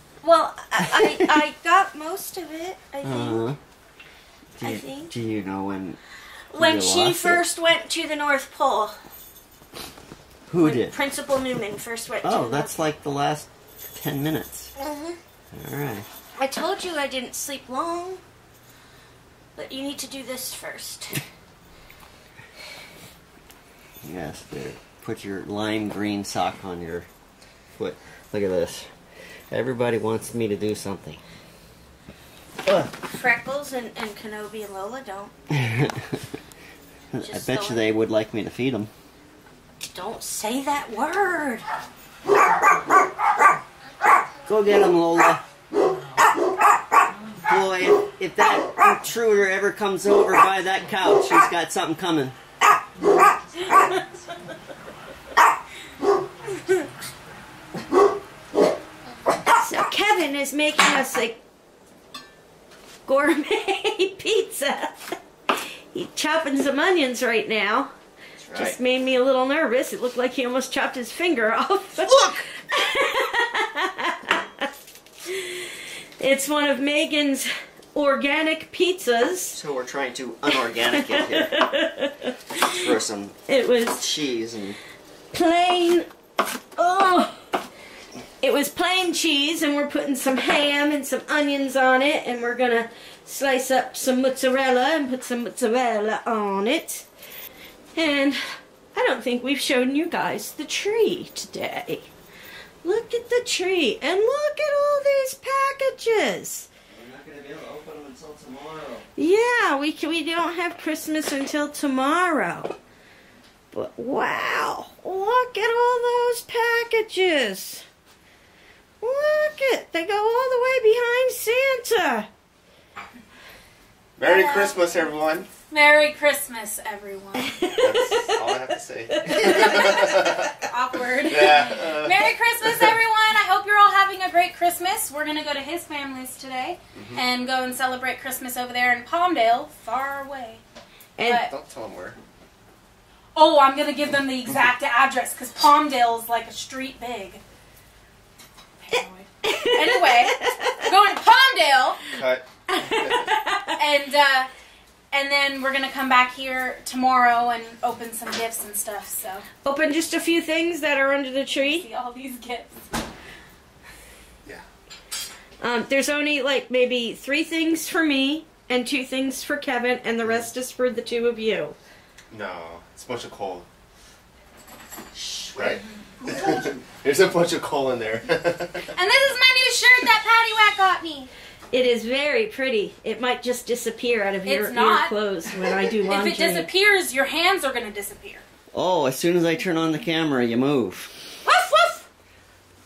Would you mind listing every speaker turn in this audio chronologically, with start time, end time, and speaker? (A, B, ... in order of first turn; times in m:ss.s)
0:00.2-0:03.4 A
0:00.9-0:01.4 B
0:03.0-0:03.6 B
0:04.6-0:06.0 B
0:04.6-0:05.1 A
0:06.5-0:07.4 B
0:06.5-0:09.0 A
0:10.5-0:10.9 B
0:10.6-0:12.8 A
0:12.2-0:14.7 B
0:14.8-0:15.2 A
0:15.5-0:16.1 B
0:16.4-0:18.2 A
0:19.5-0:21.2 A
0:24.0-0:27.1 B
0:27.8-0:28.9 B
0:29.5-0:31.2 B
0:32.6-0:32.9 B
0:33.0-0:35.3 A
0:35.5-0:36.2 B
0:37.1-0:38.9 B
0:37.2-0:37.8 A
0:39.9-0:41.6 A
0:44.4-0:45.4 B
0:47.4-0:52.3 B
0:53.7-0:54.0 A
0:59.5-1:01.4 A
1:03.0-1:07.9 A
1:08.4-1:08.8 B
1:08.5-1:14.7 A
1:12.0-1:12.4 B
1:15.2-1:19.6 A
1:19.5-1:21.5 B
1:20.9-1:22.7 A
1:22.6-1:23.4 B
1:23.5-1:24.0 A
1:23.9-1:24.8 B
1:25.3-1:26.1 A
1:26.8-1:27.4 A
1:28.4-1:37.1 A
1:37.9-1:38.4 A
1:38.9-1:42.1 A
1:42.8-1:46.7 A
1:46.9-1:49.0 B
1:49.2-1:52.8 A
1:53.7-1:57.8 A
1:59.0-2:02.3 A
2:04.2-2:05.5 C
2:04.3-2:04.8 D
2:05.7-2:07.5 D
2:07.4-2:08.5 A
2:07.8-2:10.5 C
2:09.1-2:10.3 A
2:09.3-2:20.6 D
2:11.2-2:12.9 C
2:16.9-2:17.2 C
2:21.2-2:21.4 A
2:21.2-2:21.5 D
2:21.3-2:22.2 C
2:23.3-2:27.4 D
2:28.8-2:32.0 D
2:28.9-2:30.9 A
2:32.1-2:32.4 C
2:32.7-2:33.8 A
2:33.7-2:34.5 D
2:35.1-2:39.4 D
2:39.6-2:41.9 A
2:41.5-2:42.8 D
2:45.6-2:51.8 A
2:52.3-2:53.7 C
2:55.5-2:58.9 C
2:58.9-3:01.3 D
3:01.7-3:06.7 A
3:04.4-3:05.1 D
3:05.9-3:08.4 D
3:08.7-3:11.2 B
3:11.5-3:12.0 A